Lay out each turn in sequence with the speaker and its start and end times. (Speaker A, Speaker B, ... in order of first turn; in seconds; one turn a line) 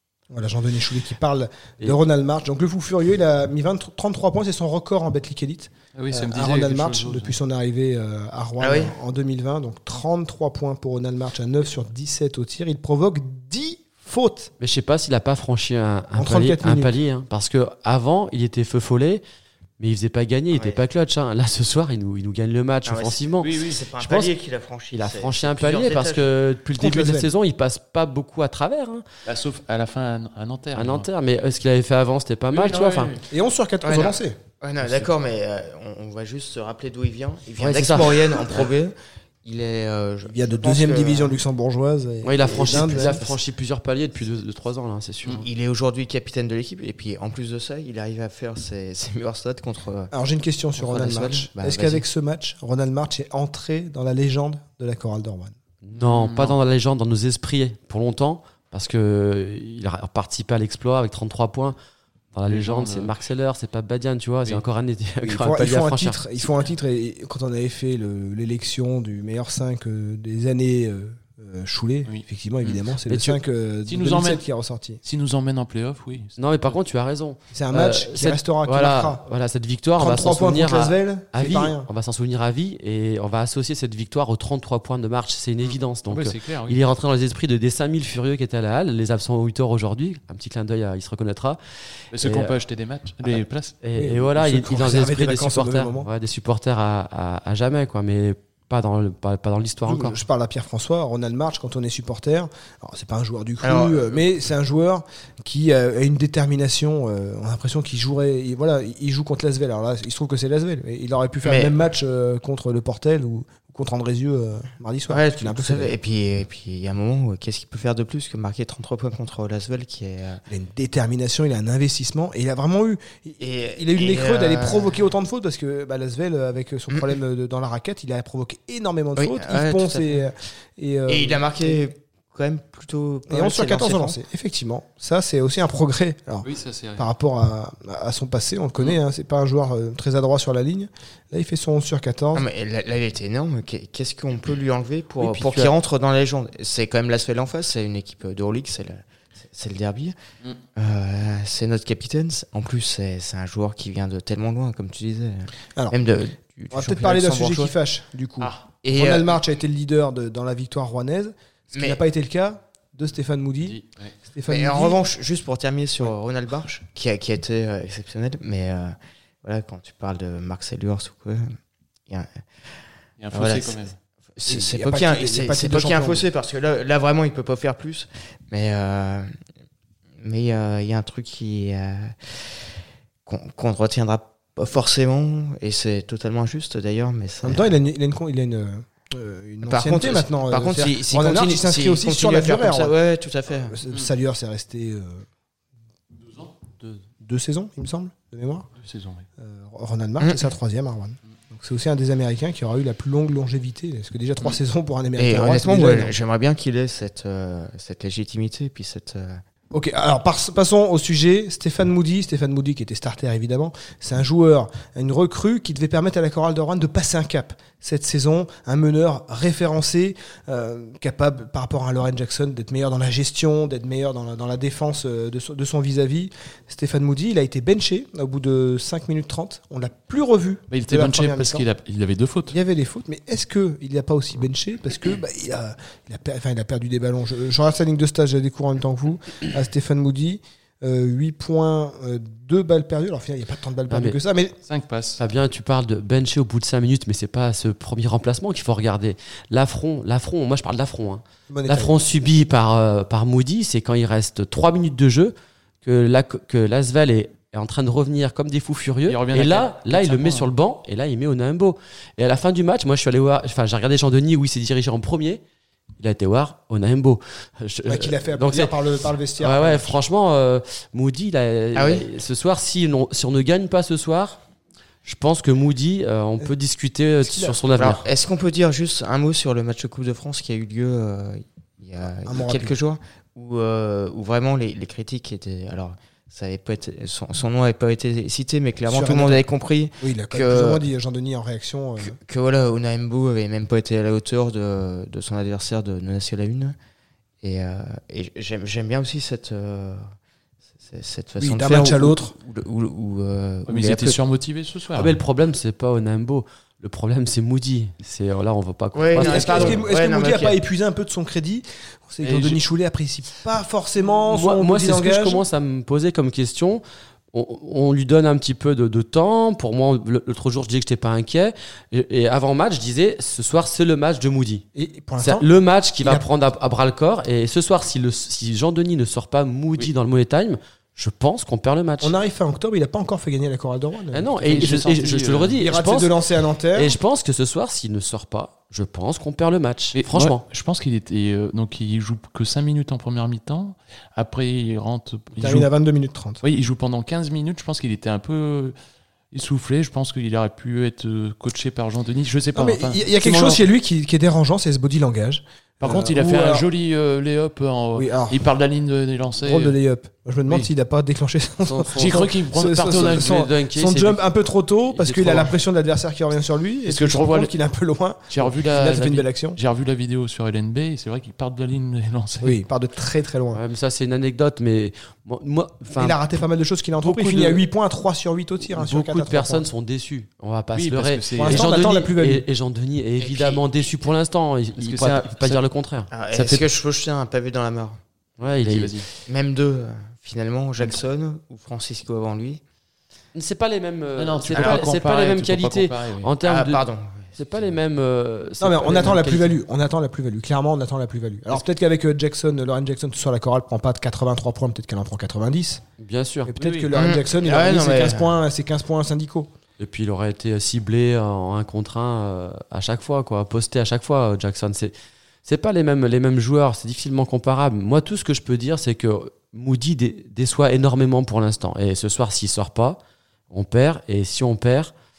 Speaker A: 0.3-14.5
Speaker B: 5.9-7.3
Speaker C: 8.6-8.9
Speaker D: 14.6-19.2
Speaker A: 16.1-17.0
Speaker D: 19.8-24.3
Speaker C: 20.5-20.8
Speaker C: 22.9-26.3
Speaker B: 23.4-23.8
Speaker D: 24.9-29.0
Speaker A: 26.7-27.3
Speaker B: 29.2-31.1
Speaker D: 30.7-33.1
Speaker B: 32.5-33.2
Speaker A: 33.3-34.4
Speaker C: 33.8-41.4
Speaker D: 37.6-38.7
Speaker A: 40.3-43.4
Speaker D: 42.2-45.5
Speaker C: 42.5-43.3
Speaker C: 45.4-50.1
Speaker A: 50.1-55.5
Speaker C: 50.8-52.0
Speaker D: 55.8-61.8
Speaker B: 56.0-56.5
Speaker D: 62.3-66.5
Speaker B: 62.5-63.1
Speaker A: 65.2-75.0
Speaker B: 72.0-72.8
Speaker D: 73.1-73.4
Speaker B: 73.8-74.4
Speaker B: 75.0-76.4
Speaker D: 76.4-91.6
Speaker A: 77.5-79.2
Speaker A: 80.0-81.9
Speaker B: 85.6-86.8
Speaker B: 92.1-93.8
Speaker D: 92.2-92.5
Speaker D: 93.8-100.2
Speaker A: 93.9-96.1
Speaker A: 99.8-116.0
Speaker C: 103.6-104.2
Speaker C: 111.4-111.7
Speaker C: 115.1-120.4
Speaker A: 120.5-131.8
Speaker C: 123.4-125.0
Speaker C: 129.2-130.2
Speaker C: 131.1-134.2
Speaker A: 133.3-142.5
Speaker B: 136.4-137.0
Speaker C: 142.3-150.1
Speaker D: 145.2-145.7
Speaker C: 150.7-157.7
Speaker A: 156.7-163.8
Speaker C: 158.7-159.4
Speaker C: 161.7-162.0
Speaker B: 163.6-164.1
Speaker A: 164.3-165.1
Speaker C: 164.5-171.6
Speaker C: 172.1-172.4
Speaker B: 173.2-173.9
Speaker C: 173.3-179.3
Speaker A: 174.4-176.3
Speaker C: 180.2-182.6
Speaker C: 183.2-187.7
Speaker A: 187.4-192.9
Speaker C: 189.6-193.8
Speaker A: 193.5-195.2
Speaker A: 197.2-198.7
Speaker B: 198.8-199.2
Speaker A: 199.4-206.2
Speaker C: 200.2-200.5
Speaker C: 205.2-209.4
Speaker A: 209.7-231.7
Speaker B: 230.7-232.6
Speaker A: 232.5-244.5
Speaker D: 243.9-244.2
Speaker B: 244.7-245.2
Speaker D: 245.2-265.4
Speaker A: 251.5-252.0
Speaker B: 259.1-260.5
Speaker D: 266.0-268.7
Speaker A: 267.9-270.0
Speaker D: 269.4-274.4
Speaker C: 271.7-272.1
Speaker D: 275.0-278.0
Speaker A: 277.2-277.6
Speaker C: 277.8-290.8
Speaker A: 282.2-282.8
Speaker A: 288.9-289.4
Speaker A: 290.0-292.2
Speaker C: 292.0-296.8
Speaker C: 297.4-300.1
Speaker C: 300.8-304.2
Speaker A: 301.4-302.3
Speaker B: 303.7-305.2
Speaker D: 304.9-309.8
Speaker C: 308.9-310.6
Speaker A: 309.1-315.4
Speaker B: 312.2-312.6
Speaker D: 314.3-324.6
Speaker A: 324.7-326.2
Speaker D: 325.2-332.1
Speaker A: 332.0-334.8
Speaker D: 334.1-336.1
Speaker B: 334.4-335.6
Speaker A: 335.6-336.9
Speaker D: 336.7-340.4
Speaker B: 339.9-345.7
Speaker A: 345.4-346.4
Speaker B: 346.4-348.7
Speaker B: 349.3-353.6
Speaker A: 352.5-356.7
Speaker B: 355.8-359.8
Speaker A: 357.9-358.4
Speaker A: 359.4-369.6
Speaker D: 361.6-364.2
Speaker B: 361.9-363.5
Speaker D: 364.9-365.5
Speaker B: 366.9-367.5
Speaker B: 368.3-372.6
Speaker A: 372.4-373.6
Speaker D: 373.5-376.2
Speaker A: 375.9-379.6
Speaker D: 377.0-377.6
Speaker D: 378.7-386.1
Speaker B: 380.7-381.7
Speaker A: 381.4-382.4
Speaker C: 383.2-383.9
Speaker B: 384.8-385.6
Speaker C: 386.1-388.0
Speaker B: 386.3-386.7
Speaker D: 388.4-388.9
Speaker B: 388.6-389.1
Speaker C: 389.2-392.6
Speaker D: 393.3-396.8
Speaker B: 394.2-396.3
Speaker C: 394.5-394.8
Speaker C: 396.4-397.6
Speaker D: 397.3-399.6
Speaker A: 398.6-405.8
Speaker D: 406.0-406.6
Speaker A: 406.5-409.5
Speaker B: 406.6-406.9
Speaker C: 406.9-408.4
Speaker D: 409.8-414.9
Speaker D: 415.4-423.0
Speaker D: 423.5-424.9